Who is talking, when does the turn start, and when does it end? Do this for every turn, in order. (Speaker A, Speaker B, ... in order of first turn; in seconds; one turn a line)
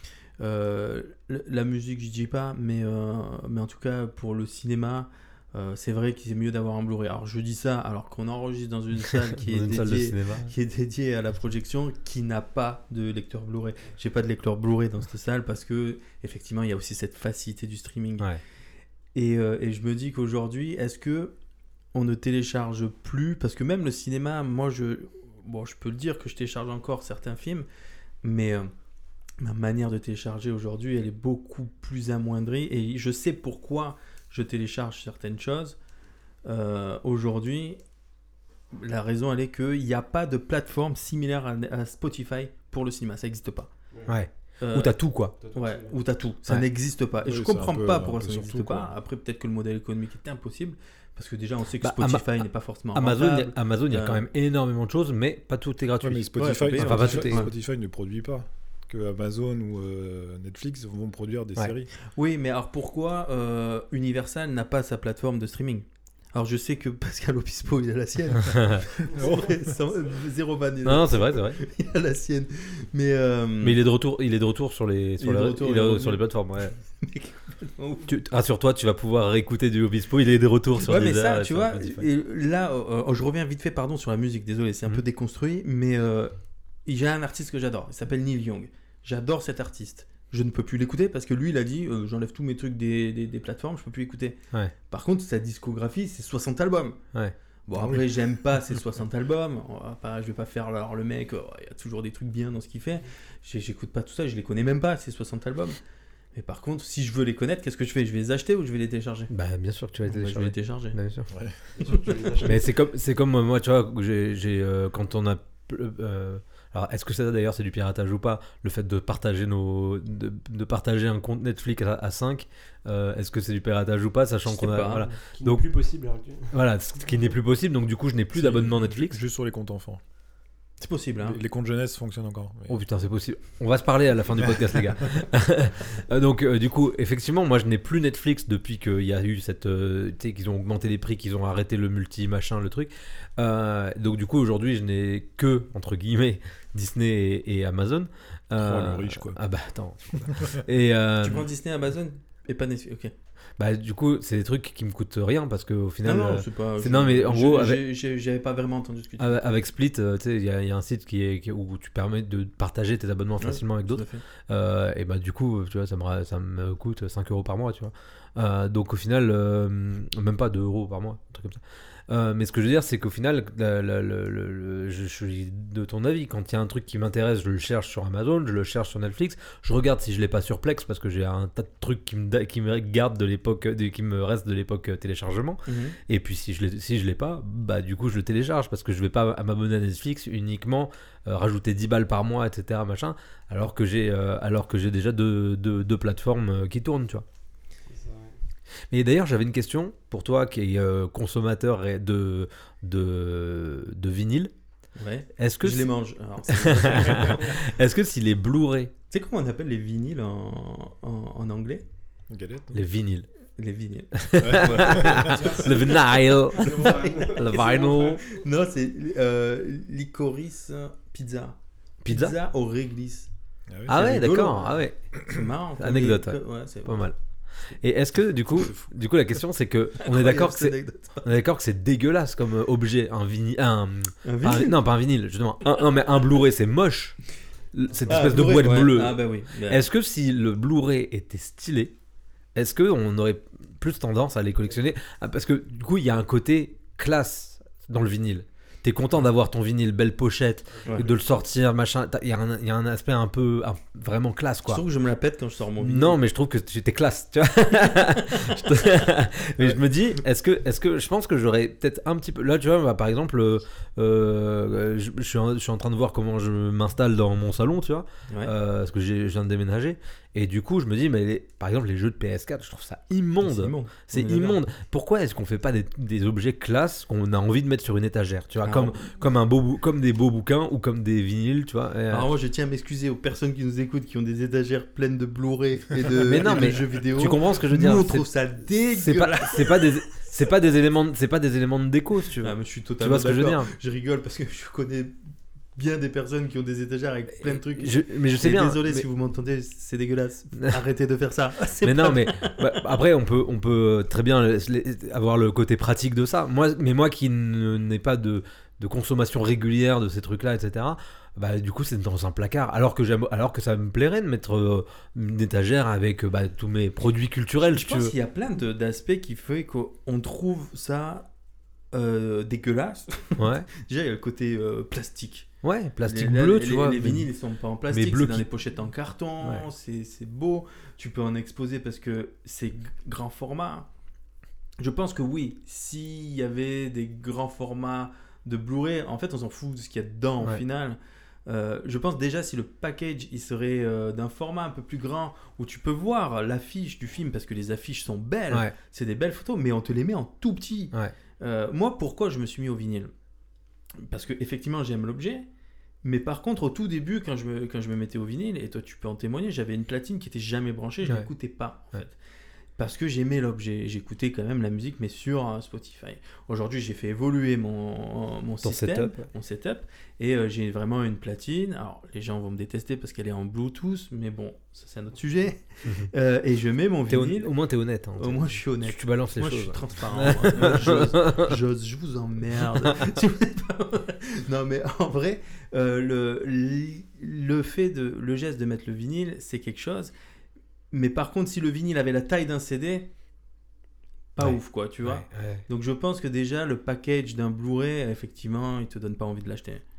Speaker A: 0.4-18.3
Speaker B: 9.4-10.5
Speaker A: 19.1-21.3
Speaker A: 21.9-27.7
Speaker A: 28.2-28.7
Speaker A: 29.4-35.8
Speaker A: 36.5-37.8
Speaker A: 38.7-43.7
Speaker C: 43.9-44.2
Speaker B: 44.1-45.4
Speaker A: 44.6-45.0
Speaker C: 45.4-46.0
Speaker A: 45.5-54.3
Speaker D: 47.2-48.9
Speaker B: 51.8-57.5
Speaker D: 56.0-61.9
Speaker A: 56.4-57.5
Speaker A: 62.1-73.8
Speaker B: 68.5-68.8
Speaker D: 69.1-69.6
Speaker B: 70.8-71.6
Speaker B: 73.6-76.8
Speaker A: 75.2-76.3
Speaker A: 76.9-78.1
Speaker B: 78.1-82.1
Speaker A: 80.8-86.3
Speaker A: 86.9-97.0
Speaker A: 97.7-105.8
Speaker A: 106.3-109.3
Speaker B: 109.3-111.3
Speaker A: 110.0-111.0
Speaker D: 111.3-111.6
Speaker C: 111.8-112.7
Speaker A: 111.8-112.2
Speaker B: 112.4-125.7
Speaker A: 124.5-125.1
Speaker C: 125.2-126.5
Speaker B: 126.5-129.2
Speaker D: 128.3-130.0
Speaker A: 130.8-131.4
Speaker D: 131.2-132.8
Speaker B: 132.7-151.5
Speaker D: 148.6-149.4
Speaker D: 150.3-150.6
Speaker A: 151.2-153.1
Speaker B: 153.6-157.8
Speaker A: 156.0-159.4
Speaker B: 159.2-197.2
Speaker A: 163.4-164.2
Speaker A: 185.7-186.0
Speaker C: 197.9-198.4
Speaker B: 198.9-204.5
Speaker A: 205.0-207.6
Speaker B: 205.4-205.9
Speaker B: 206.5-208.9
Speaker A: 209.1-211.8
Speaker D: 212.3-212.8
Speaker B: 212.7-213.3
Speaker A: 213.6-216.0
Speaker B: 214.1-218.2
Speaker D: 214.4-215.4
Speaker C: 215.4-216.0
Speaker C: 216.6-218.4
Speaker A: 216.6-223.3
Speaker B: 222.0-222.3
Speaker D: 223.7-224.0
Speaker A: 223.9-227.1
Speaker B: 223.9-227.2
Speaker B: 227.7-241.9
Speaker A: 230.0-231.3
Speaker A: 234.2-234.8
Speaker C: 237.9-238.4
Speaker A: 238.1-239.8
Speaker B: 242.6-254.8
Speaker C: 250.7-251.2
Speaker A: 250.8-251.1
Speaker A: 254.7-256.2
Speaker B: 255.8-282.3
Speaker A: 273.4-274.6
Speaker A: 278.6-279.1
Speaker A: 282.1-290.3
Speaker B: 286.2-288.3
Speaker B: 289.0-293.7
Speaker A: 292.4-295.2
Speaker A: 295.8-302.7
Speaker B: 297.4-299.1
Speaker B: 301.8-318.1
Speaker A: 317.6-321.3
Speaker A: 321.9-325.5
Speaker B: 323.4-323.7
Speaker B: 325.6-327.3
Speaker A: 326.0-333.9
Speaker B: 327.9-328.4
Speaker A: 334.8-353.1
Speaker A: 354.0-355.5
Speaker A: 356.0-362.2
Speaker B: 361.0-361.3
Speaker A: 362.8-377.5
Speaker B: 368.6-369.3
Speaker B: 375.9-376.1
Speaker B: 377.1-381.5
Speaker A: 378.2-390.1
Speaker A: 390.9-393.1
Speaker A: 394.4-399.8
Speaker B: 394.4-395.6